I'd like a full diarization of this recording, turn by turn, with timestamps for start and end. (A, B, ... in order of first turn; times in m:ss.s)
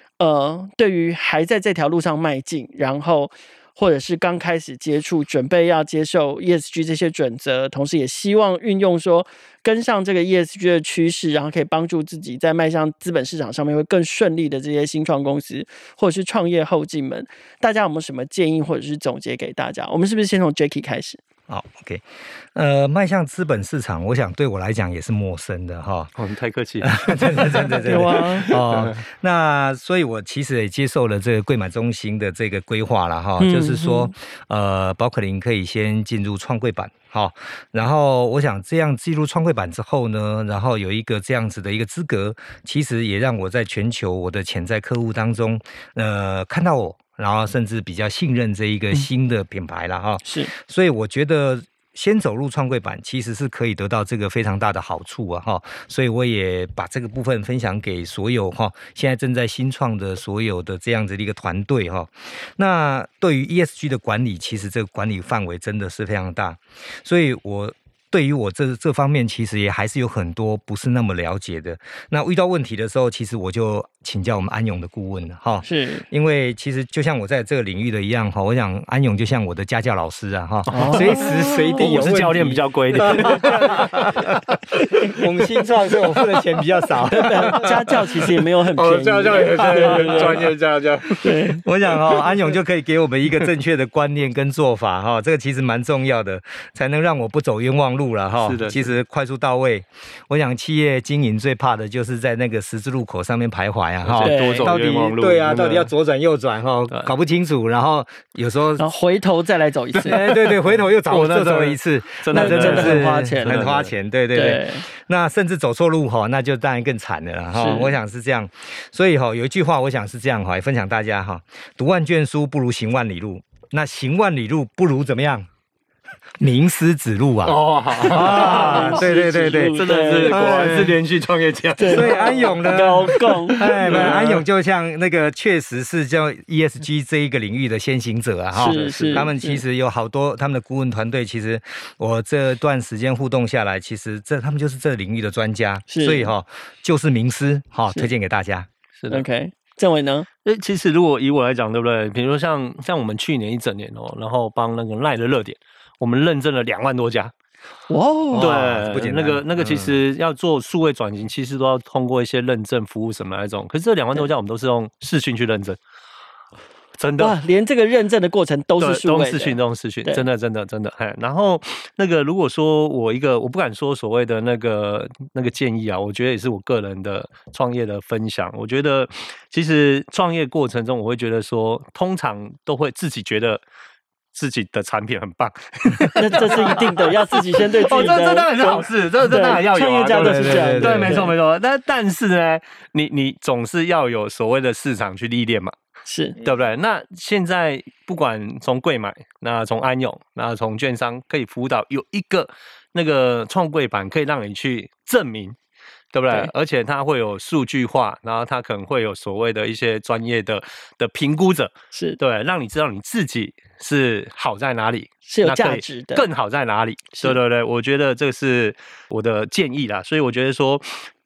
0:00.2-0:21.2 A
0:21.5-0:26.1 B
0:26.2-0:29.0 C
0:26.8-1:24.5 B
0:27.8-0:28.5 A
0:33.4-0:34.1 A
0:50.2-0:50.5 A
1:15.6-1:16.1 A
1:20.7-1:21.9 A
1:20.8-1:24.9 C
1:23.2-1:23.6 A
1:25.0-1:27.9 B
1:27.1-1:30.5 A
1:28.8-1:32.4 C
1:29.6-1:30.5 B
1:31.2-1:31.6 A
1:31.6-1:48.8 B
1:38.4-1:38.9 C
1:44.0-1:45.9 C
1:44.2-1:44.7 A
1:48.8-1:50.3 A
1:50.0-1:53.9 C
1:50.0-2:05.5 B
1:52.3-1:53.6 A
1:54.3-1:54.9 A
1:57.5-1:58.0 A
2:06.4-2:11.0 B
2:07.4-2:14.4 C
2:08.0-2:10.9 A
2:11.8-2:14.2 A
2:11.9-2:28.7 B
2:18.6-2:19.6 A
2:18.6-2:19.3 C
2:25.9-2:26.3 A
2:29.0-2:29.3 C
2:29.1-2:30.3 A
2:30.4-2:37.3 C
2:37.9-2:38.6 A
2:38.3-2:40.0 B
2:38.4-2:45.8 C
2:47.0-2:47.4 C
2:47.2-2:50.2 A
2:48.8-3:03.6 C
3:04.3-3:15.7 C
3:06.2-3:11.3 A
3:10.2-3:11.3 B
3:16.1-3:16.4 A
3:16.4-3:25.6 C
3:26.1-3:41.1 C
3:31.9-3:32.2 A
3:35.3-3:36.3 A